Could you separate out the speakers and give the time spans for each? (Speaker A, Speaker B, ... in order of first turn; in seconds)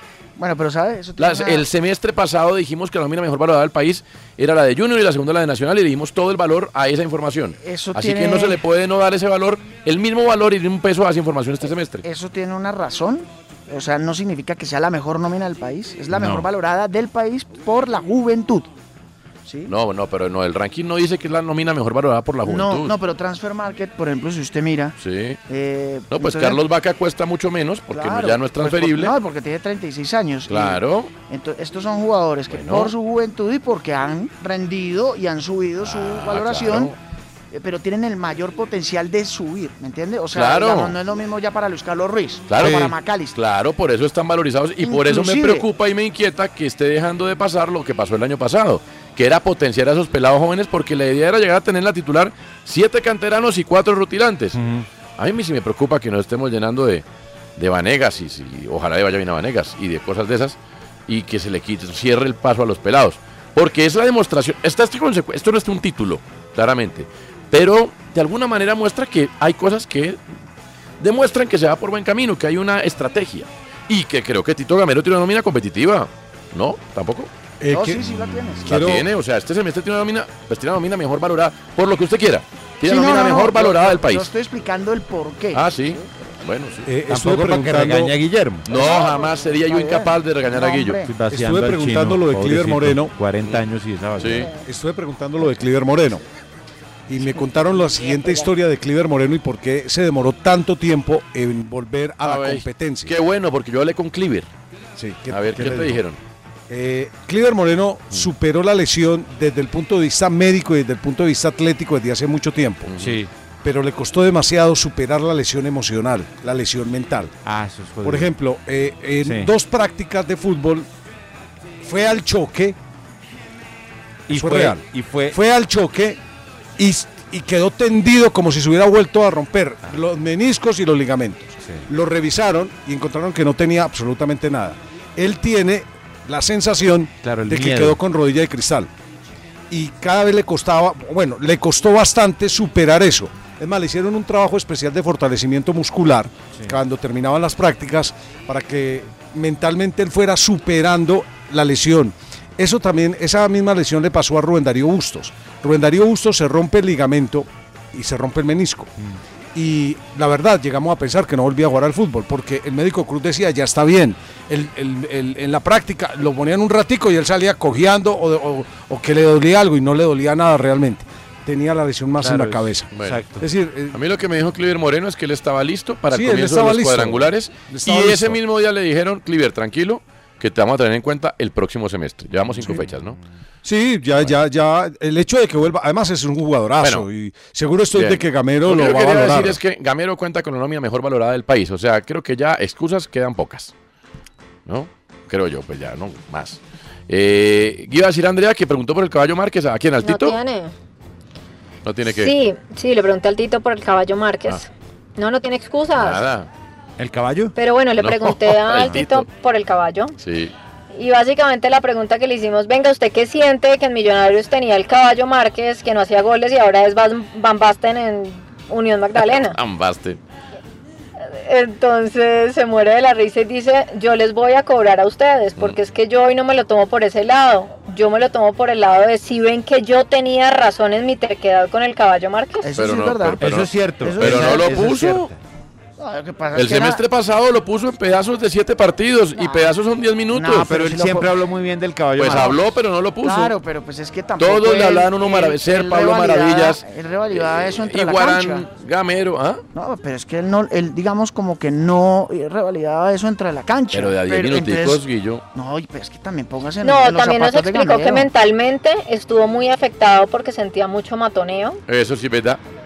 Speaker A: 0.4-1.6, 7.6-8.6, 12.0-18.7, 19.4-19.7, 22.4-24.9, 25.5-26.6, 27.9-36.9, 37.5-43.4, 44.8-45.7, 77.7-78.8, 82.8-86.1, 88.7-91.1, 97.7-98.5, 232.6-233.4, 234.0-234.8, 236.0-237.0, 239.4-239.7, 240.3-241.3, 243.2-248.7, 249.7-255.0, 255.5-258.3
Speaker B: 1.2-12.0, 19.7-22.9, 25.0-25.4, 26.1-29.1, 30.5-31.1, 32.5-32.9, 35.8-37.0, 40.3-41.0, 42.5-54.6, 55.2-57.0, 57.6-70.2, 71.0-77.3, 78.7-84.3, 85.5-86.9, 88.7-91.0, 94.2-94.5, 102.2-104.5, 105.3-106.2, 112.8-113.2, 172.9-173.2, 173.9-183.2, 186.8-187.1, 187.9-193.7, 194.7-200.4, 201.8-202.3, 205.9-206.5, 208.0-209.2, 210.2-210.5, 219.2-220.2, 232.8-235.3, 236.5-240.7, 242.2-243.5, 244.4-249.6, 253.9-255.4, 261.9-262.6
Speaker C: 16.1-16.5, 54.5-54.9, 87.1-88.7, 91.0-94.5, 113.0-113.3, 117.4-118.3, 119.2-119.5, 124.3-125.4, 131.6-131.9, 137.2-138.0, 146.5-146.8, 172.2-173.4, 182.5-183.2, 207.0-207.5, 233.4-235.4, 240.5-242.6
Speaker D: 77.6-78.0, 78.6-79.0, 86.8-88.1, 91.3-93.1, 94.6-96.2, 97.1-103.1, 105.0-106.0, 106.7-112.9, 113.6-117.3, 118.0-120.9, 121.8-122.8, 124.3-126.2, 126.8-138.9, 139.7-158.9, 159.5-174.0, 176.1-178.4, 183.6-189.6
Speaker E: 200.0-200.7, 202.1-206.2, 207.6-210.1, 210.9-219.6, 221.3-232.7, 256.8-261.8